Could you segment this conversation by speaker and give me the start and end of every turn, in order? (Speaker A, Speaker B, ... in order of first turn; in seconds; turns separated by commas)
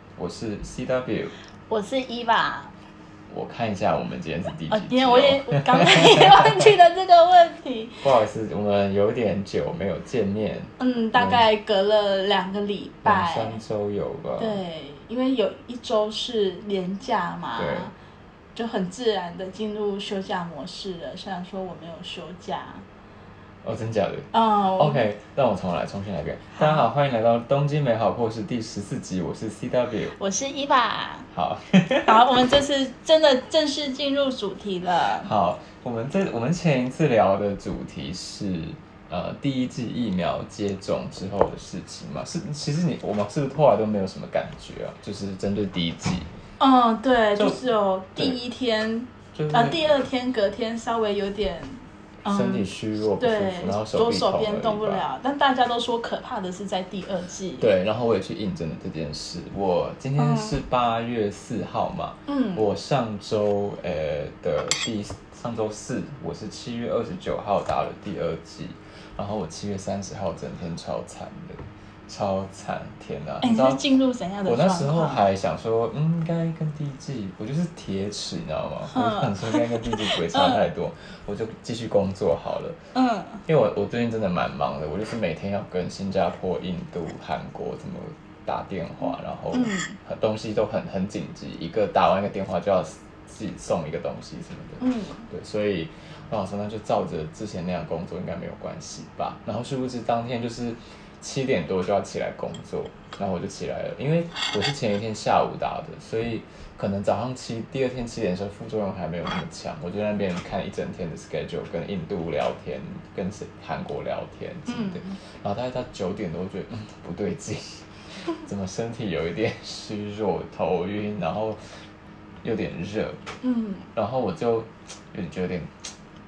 Speaker A: 0.2-1.3, Speaker B: 1.7-2.7, Speaker A: 3.3-6.7, Speaker B: 4.7-8.0, Speaker A: 8.0-11.4, Speaker B: 10.8-13.6, Speaker A: 13.0-14.6, Speaker B: 14.4-17.9, Speaker A: 17.6-17.9, Speaker B: 18.5-22.8, Speaker A: 23.6-30.1, Speaker B: 24.3-25.1, Speaker B: 26.6-26.9, Speaker B: 30.1-31.3, Speaker A: 31.3-32.2, Speaker B: 32.0-35.3, Speaker A: 35.2-46.3, Speaker B: 46.6-52.6, Speaker A: 47.4-47.6, Speaker A: 49.3-50.0, Speaker A: 52.3-55.0, Speaker B: 53.2-57.7, Speaker A: 57.6-73.8, Speaker B: 60.2-60.6, Speaker B: 62.3-62.6, Speaker B: 73.4-75.2, Speaker A: 74.5-82.8, Speaker B: 78.9-80.7, Speaker B: 82.9-83.4, Speaker A: 83.4-121.6, Speaker B: 89.0-90.0, Speaker B: 94.8-95.3, Speaker B: 114.7-115.2, Speaker A: 122.4-123.2, Speaker B: 123.4-123.9, Speaker A: 123.9-125.9